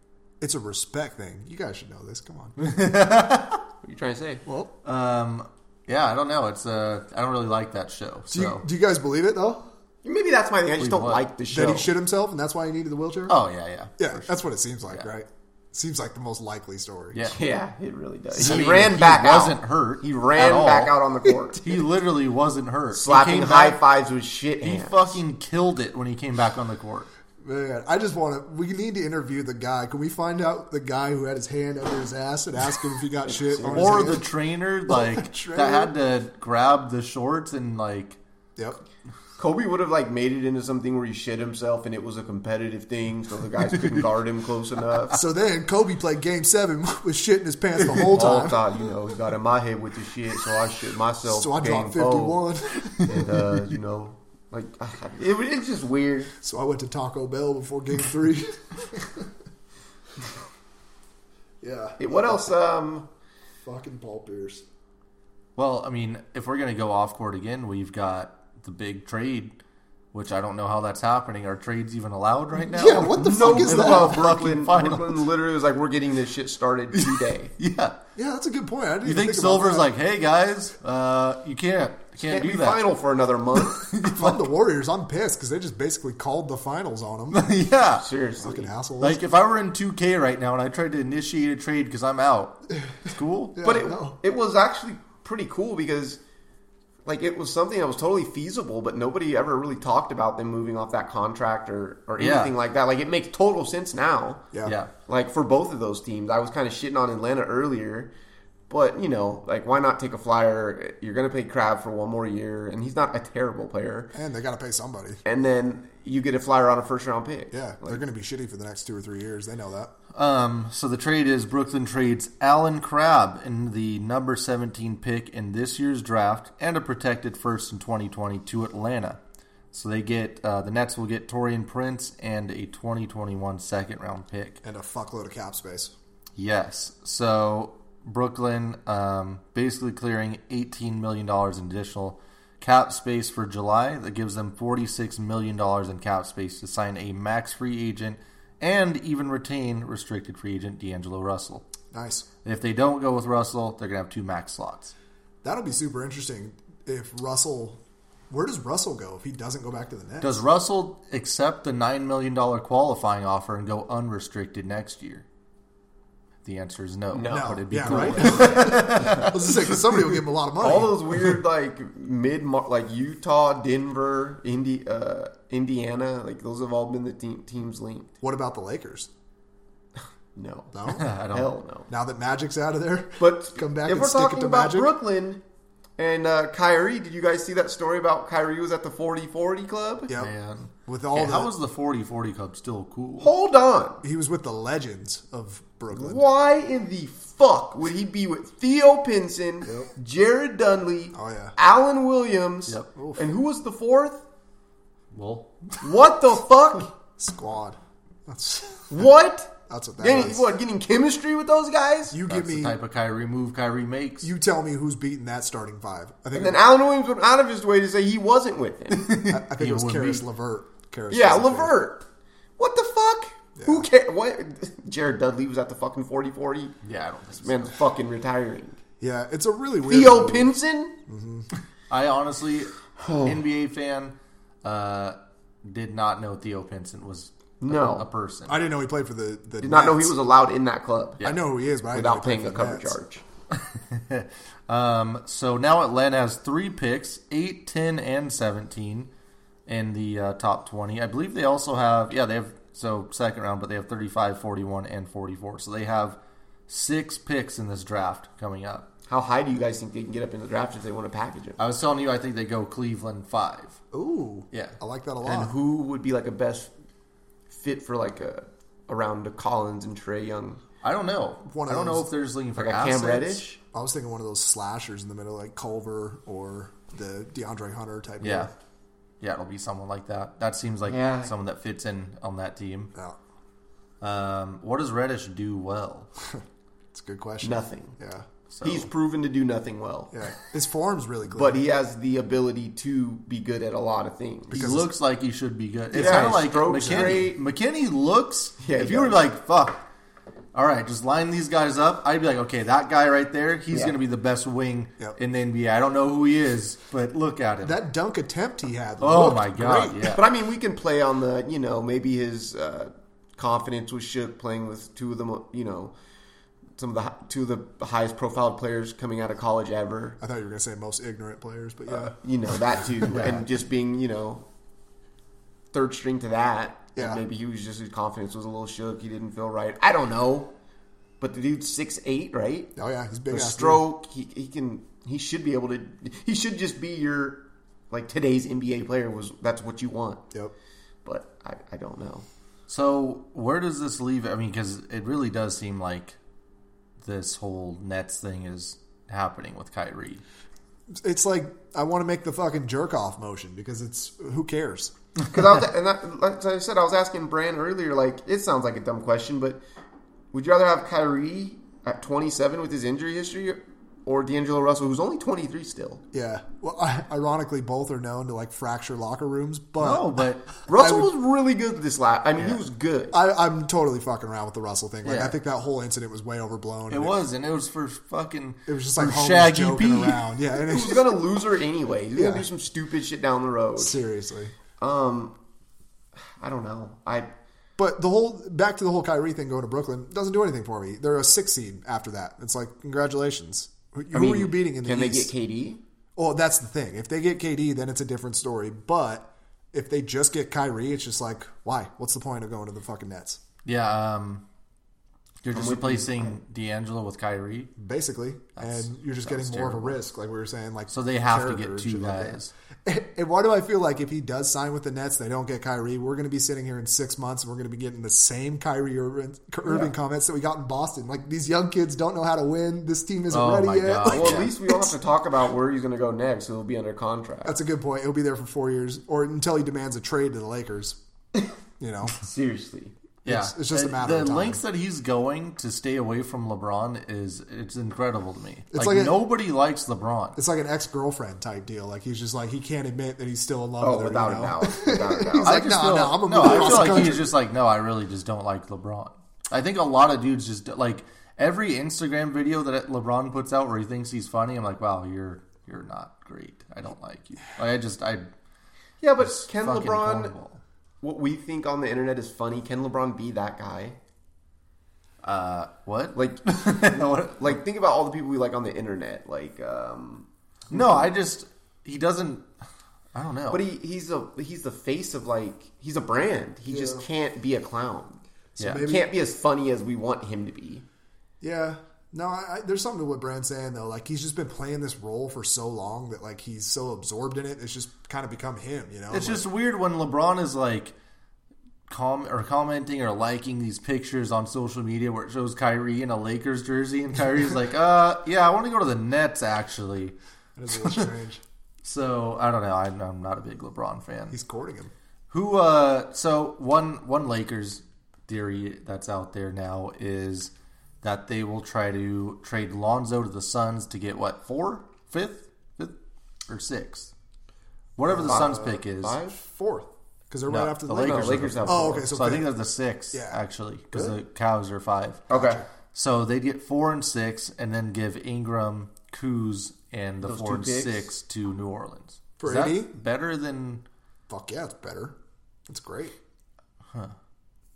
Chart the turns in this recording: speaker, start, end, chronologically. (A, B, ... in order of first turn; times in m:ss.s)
0:00.4-0:02.6 A
0:02.6-0:03.6 B
0:03.8-0:04.4 C
0:04.4-0:04.7 A
0:04.8-0:08.6 B
0:08.3-0:09.7 A
0:10.0-0:11.9 C
0:10.8-0:11.2 B
0:11.5-0:13.4 A
0:13.3-0:14.3 B
0:14.0-0:17.2 A
0:17.1-0:17.4 B
0:17.3-0:21.7 C
0:18.4-0:20.9 B
0:18.4-0:18.8 A
0:21.6-0:23.8 B
0:22.9-0:25.2 C
0:24.6-0:27.1 B
0:27.4-0:34.3 A
0:33.2-0:34.2 C
0:33.6-0:38.2 B
0:34.9-0:35.9 A
0:39.4-0:45.2 C
0:45.1-0:48.6 A
0:47.9-0:52.4 C
0:51.2-0:53.5 A
0:53.0-0:56.3 C
0:56.4-0:59.3 A
1:01.6-1:02.2 A
1:02.0-1:03.1 C
1:03.6-1:04.6 A
1:05.6-1:09.6 B
1:10.1-1:15.2 B
1:12.6-1:14.3 A
1:12.8-1:17.5 C
1:16.9-1:18.0 B
1:18.2-1:19.9 A
1:19.0-1:22.9 B
1:22.2-1:23.9 C
1:23.6-1:24.4 B
1:24.2-1:27.4 A
1:27.3-1:28.0 B
1:28.0-1:28.7 C
1:28.4-1:29.2 A
1:29.0-1:33.6 B
1:33.5-1:34.2 A
1:33.6-1:36.2 C
1:37.0-1:44.5 C
1:42.2-1:42.5 B
1:44.6-1:44.9 B
1:45.1-1:48.1 C
1:48.7-1:54.1 C
1:54.1-1:55.2 A
1:55.2-1:58.0 C
1:57.5-1:59.9 A
2:00.1-2:09.2 B
2:09.7-2:14.6 B
2:14.6-2:15.9 A
2:16.4-2:31.6 B
2:31.9-2:32.3 A
2:32.4-2:34.9 B
2:35.4-2:40.4 A
2:40.2-2:45.2 B
2:46.4-2:49.7 B
2:47.1-2:49.6 C
2:47.3-2:51.4 A
2:50.6-2:58.1 C
2:58.2-2:59.1 A
3:00.4-3:01.9 C
3:00.7-3:01.0 A
3:00.9-3:01.5 B
3:01.9-3:04.9 A
3:03.2-3:05.4 C
3:06.0-3:10.1 C
3:10.1-3:10.3 A
3:10.1-3:13.3 B
3:10.8-3:11.5 A
3:13.2-3:14.0 C
3:14.0-3:16.2 A
3:15.9-3:24.2 C
3:19.6-3:19.9 A
3:21.1-3:21.5 A
3:23.0-3:23.3 A
3:25.1-3:25.8 B
3:25.8-3:26.9 C
3:27.2-3:29.0 A
3:28.9-3:32.2 C
3:29.7-3:30.4 A
3:32.1-3:32.8 A
3:32.3-3:34.3 B
3:34.2-3:36.6 A
3:36.3-3:39.1 C
3:38.9-3:40.2 B
3:39.2-3:41.7 A
3:41.1-3:42.0 C
3:42.6-3:46.8 C
3:43.6-3:43.9 A
3:46.8-3:47.7 B
3:47.4-3:48.8 C
3:49.0-3:50.5 A
3:49.8-3:51.0 C
3:51.1-3:51.5 A
3:51.9-3:58.6 B
3:53.0-3:53.4 C
3:57.6-3:58.1 C
3:58.5-4:00.1 A
3:59.6-4:01.2 C
4:01.2-4:02.9 A
4:01.9-4:03.2 C
4:03.5-4:09.1 B
4:09.6-4:18.9 B
4:19.1-4:21.6 C
4:21.6-4:23.8 B
4:23.9-4:25.5 A
4:24.5-4:24.8 B
4:25.2-4:26.7 C
4:27.5-4:30.6 C
4:30.8-4:33.4 B
4:31.5-4:32.1 A
4:32.6-4:33.6 C
4:33.7-4:38.5 A
4:38.2-4:38.5 B
4:39.2-4:42.9 B
4:40.9-4:41.3 C
4:44.0-4:46.1 B
4:46.2-4:48.2 A
4:47.4-4:47.9 C
4:48.5-4:48.9 B
4:48.6-4:50.1 C
4:50.1-4:51.6 A
4:51.3-4:54.8 C
4:54.5-4:54.9 A
4:54.5-4:59.8 B
4:55.9-4:57.4 C
4:56.8-4:57.2 A
4:58.6-4:59.2 C
5:00.5-5:07.8 B
5:07.6-5:10.1 A
5:09.0-5:10.2 B
5:10.1-5:15.9 C
5:16.8-5:20.2 C
5:20.2-5:22.1 A
5:21.9-5:24.4 C
5:22.8-5:23.4 A
5:25.7-5:30.5 C
5:27.0-5:27.2 A
5:31.2-5:32.7 C
5:32.8-5:33.8 A
5:33.3-5:40.2 C
5:41.0-5:42.2 C
5:42.7-5:46.2 B
5:47.0-5:50.2 B
5:51.0-5:54.9 A
5:55.3-5:59.6 C
6:00.3-6:06.0 C
6:06.1-6:10.1 A
6:09.8-6:10.5 B
6:10.7-6:13.2 C
6:10.7-6:11.1 A
6:13.1-6:17.2 A
6:15.0-6:15.4 B
6:16.9-6:20.2 B
6:18.6-6:21.2 A
6:20.5-6:24.0 C
6:22.1-6:22.5 A
6:23.8-6:24.5 A
6:24.8-6:25.3 C
6:26.3-6:27.3 C
6:27.8-6:35.3 A
6:34.1-6:35.8 C
6:36.2-6:43.4 A
6:43.6-6:44.4 B
6:45.4-6:47.7 B
6:45.5-6:46.4 C
6:47.8-7:04.6 A
6:48.6-6:50.0 B
6:50.9-6:52.5 B
6:59.6-6:59.9 C
7:03.3-7:04.5 B
7:04.0-7:07.6 C
7:07.4-7:11.0 A
7:11.8-7:12.2 A
7:12.1-7:12.9 C
7:13.2-7:20.4 B
7:13.2-7:14.6 A
7:18.7-7:19.2 A
7:20.4-7:27.3 A
7:23.8-7:25.6 C
7:25.4-7:38.3 B
7:26.4-7:26.7 C
7:39.0-7:40.3 C
7:39.2-7:40.6 B
7:41.0-7:44.0 C
7:45.2-7:47.6 B
7:46.1-7:51.1 C
7:50.7-7:52.5 B
7:53.1-7:53.6 B
7:53.5-7:58.2 C
7:56.7-7:57.0 A
7:58.6-7:59.1 A
7:58.6-7:58.9 B
7:58.7-8:00.8 C
8:01.4-8:09.4 A
8:09.1-8:10.9 B
8:11.9-8:20.1 B
8:20.6-8:21.4 A
8:20.7-8:21.1 B
8:21.8-8:24.4 B
8:24.3-8:24.9 A
8:25.3-8:36.0 B
8:36.5-8:37.1 B
8:38.0-8:39.2 B
8:38.0-8:42.5 A
8:38.1-8:39.4 C
8:40.5-8:45.2 B
8:40.9-8:42.1 C
8:43.1-8:43.4 A
8:45.3-8:45.6 C
8:45.3-8:45.6 A
8:45.9-8:53.8 B
8:50.2-8:51.1 C
8:52.4-8:53.0 A
8:54.3-8:55.1 A
8:55.7-8:56.1 A